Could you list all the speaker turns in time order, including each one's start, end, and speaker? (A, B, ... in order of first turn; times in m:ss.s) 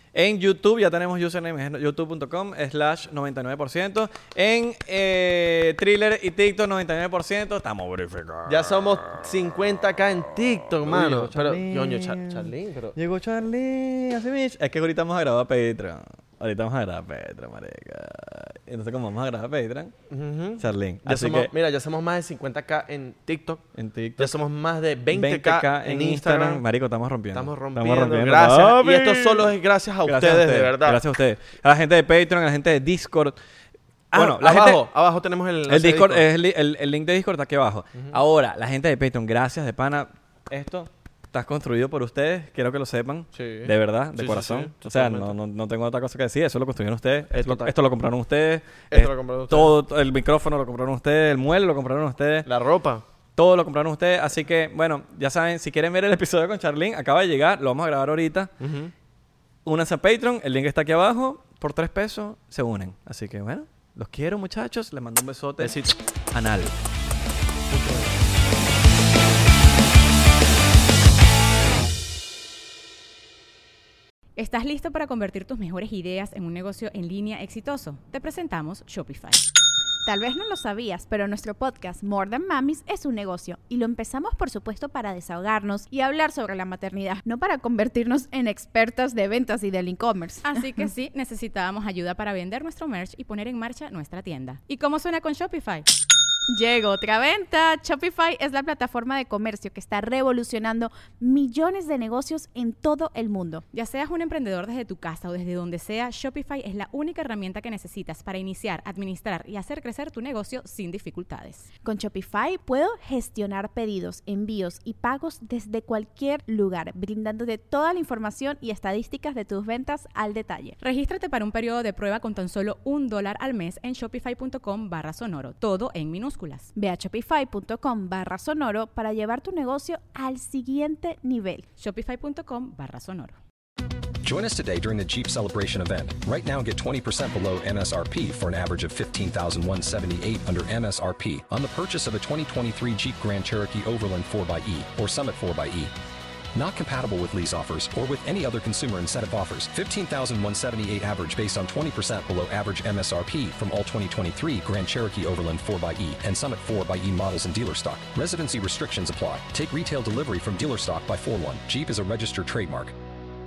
0:00.1-0:08.8 A
0:08.5-0:13.0 B
0:10.8-0:19.9 A
0:20.1-0:23.6 B
0:20.6-0:21.5 A
0:23.8-0:24.4 A
0:24.2-0:26.6 B
0:25.1-0:29.5 A
0:27.3-0:31.0 B
0:30.0-0:33.4 A
0:34.1-0:34.8 A
0:34.1-0:36.2 B
0:35.7-0:52.5 A
0:43.3-0:45.4 B
0:47.3-0:47.7 B
0:48.9-0:49.7 B
0:52.5-0:53.0 B
0:53.4-0:58.5 A
0:58.6-0:58.9 B
0:59.6-1:05.8 A
1:05.6-1:06.0 B
1:06.3-1:06.8 A
1:07.7-1:08.1 B
1:14.4-1:19.4 C
1:20.0-1:30.6 D
1:30.4-1:35.9 C
1:36.5-1:43.6 D
1:43.7-1:51.7 C
1:51.8-2:00.8 D
2:00.8-2:06.7 C
2:06.8-2:11.7 D
2:11.8-2:13.4 C
2:14.2-2:25.9 E
2:26.6-2:42.9 E